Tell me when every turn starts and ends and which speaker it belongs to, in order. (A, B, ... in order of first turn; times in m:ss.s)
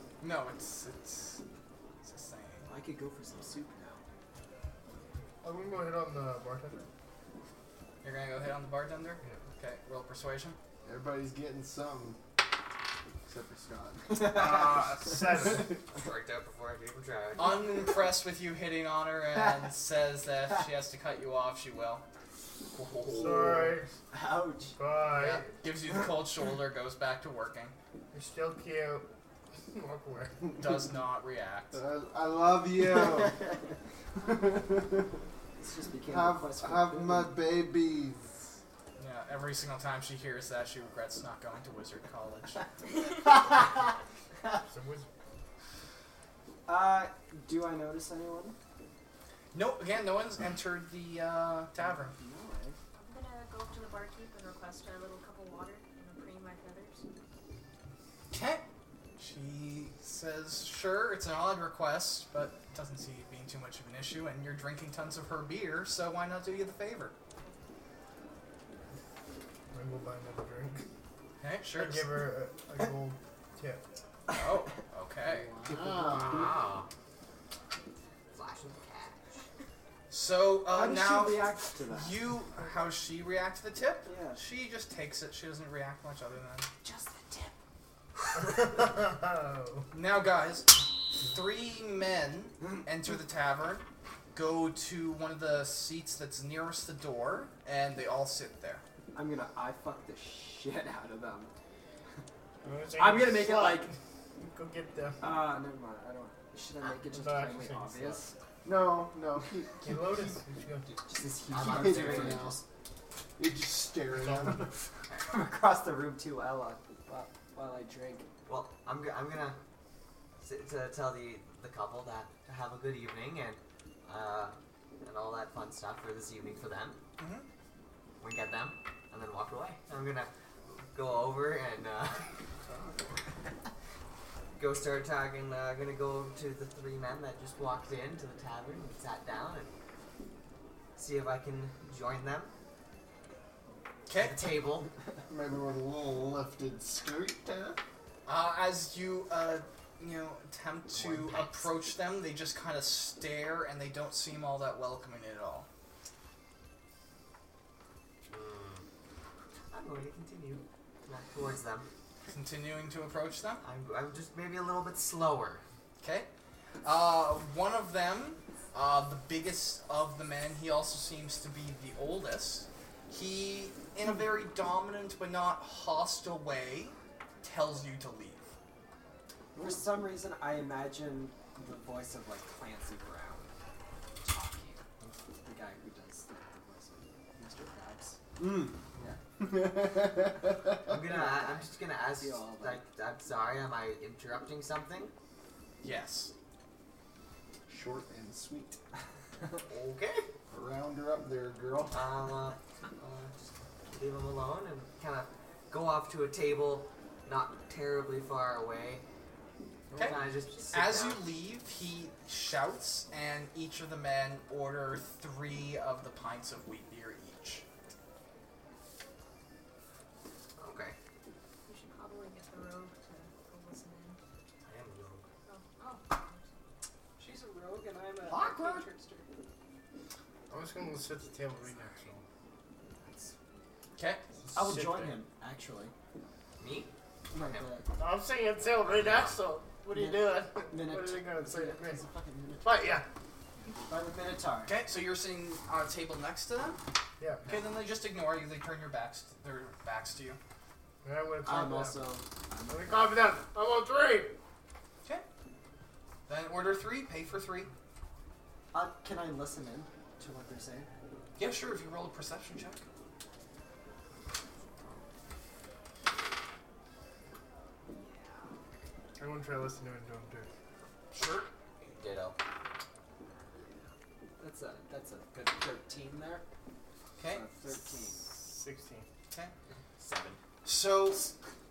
0:00.2-0:01.4 A
0:02.0-0:02.7 A
0:02.7-0:04.0 B
0:05.4-0:06.9 C
0:08.0-0:10.6 A
0:10.8-0:12.2 D
0:13.3-0:14.5 D
0:14.2-0:15.8 C
0:15.3-0:15.8 D
0:15.9-0:17.6 E
0:17.4-0:22.1 A
0:22.8-0:23.2 A
0:23.2-0:23.9 C
0:23.2-0:23.6 D
0:24.1-0:24.8 B
0:24.8-0:25.5 C
0:25.1-0:27.8 A
0:28.1-0:29.1 C
0:29.7-0:30.4 C
0:30.5-0:30.8 D
0:30.6-0:31.8 A
0:31.7-0:33.4 D
0:32.9-0:33.7 B
0:34.2-0:35.2 D
0:35.6-0:37.3 B
0:36.1-0:38.5 D
0:39.0-0:42.6 A
0:43.0-0:43.7 B
0:44.7-0:45.1 C
0:46.7-0:48.6 B
0:49.5-0:52.2 A
0:51.9-0:52.8 B
0:52.9-0:57.0 F
0:58.3-0:58.6 A
0:59.2-1:07.2 A
1:09.7-1:10.8 C
1:11.4-1:12.2 A
1:11.7-1:13.8 C
1:14.3-1:15.5 A
1:15.2-1:16.6 D
1:15.7-1:16.6 B
1:16.1-1:16.9 E
1:18.3-1:19.4 E
1:20.1-1:26.7 A
1:20.7-1:22.2 B
1:24.1-1:24.4 B
1:26.8-1:27.6 B
1:28.4-1:29.9 C
1:29.9-1:38.8 A
1:39.1-1:41.5 B
1:42.6-1:45.5 C
1:43.0-1:43.9 B
1:45.2-1:48.4 B
1:47.0-1:48.2 C
1:48.6-1:50.1 D
1:49.8-1:51.0 C
1:51.0-1:52.6 B
1:51.5-1:52.6 D
1:51.5-1:52.5 E
1:53.4-1:54.8 D
1:54.2-1:54.6 C
1:55.2-1:58.3 B
1:58.5-1:59.6 E
2:00.4-2:07.0 E
2:07.2-2:07.5 A
2:08.2-2:12.3 E
2:12.6-2:13.2 D
2:14.5-2:19.8 E
2:21.0-2:22.5 E
2:24.1-2:24.4 A
2:24.2-2:24.9 E
2:25.3-2:27.8 D
2:28.3-2:35.7 A
2:30.9-2:31.7 E
2:38.3-2:38.8 E
2:39.7-2:41.9 E
2:42.3-2:43.6 A
2:43.6-2:45.6 E
2:46.0-2:46.3 A
2:46.8-2:58.5 A
2:59.6-2:59.8 D
2:59.6-3:03.5 B
3:04.2-3:04.8 B
3:05.4-3:08.2 B
3:08.4-3:08.8 D
3:09.4-3:11.5 D
3:10.8-3:15.1 E
3:11.2-3:12.8 B
3:15.8-3:16.3 A
3:17.7-3:18.8 D
3:19.7-3:20.3 E
3:20.5-3:22.1 D
3:21.9-3:23.4 E
3:23.9-3:29.0 E
3:29.9-3:30.2 D
3:30.0-3:31.2 E
3:30.4-3:30.8 F
3:30.7-3:37.6 A
3:40.6-3:41.0 E
3:41.7-3:44.2 F
3:44.6-3:45.3 E
3:45.5-3:46.5 F
3:47.2-3:49.3 G
3:48.3-3:48.9 D
3:50.5-3:52.2 C
3:53.0-3:53.4 B
3:54.0-3:54.2 A
3:54.4-3:55.2 C
3:54.5-3:55.9 B
3:56.6-3:57.7 E
3:57.3-3:57.9 B
3:58.0-4:02.0 C
3:58.9-3:59.4 E
3:59.9-4:03.0 B
4:02.6-4:03.1 C
4:03.6-4:04.7 B
4:04.7-4:06.8 A
4:07.2-4:07.5 C
4:07.5-4:10.4 A
4:11.0-4:12.2 C
4:11.4-4:13.2 B
4:12.7-4:14.4 C
4:16.3-4:17.7 A
4:18.7-4:20.9 B
4:21.4-4:22.8 A
4:27.9-4:28.5 B
4:29.2-4:30.5 C
4:31.1-4:31.5 A
4:31.9-4:32.4 E
4:34.4-4:36.4 B
4:37.2-4:37.4 A
4:37.3-4:38.4 B
4:38.2-4:39.1 C
4:40.0-4:40.4 E
4:40.6-4:41.3 A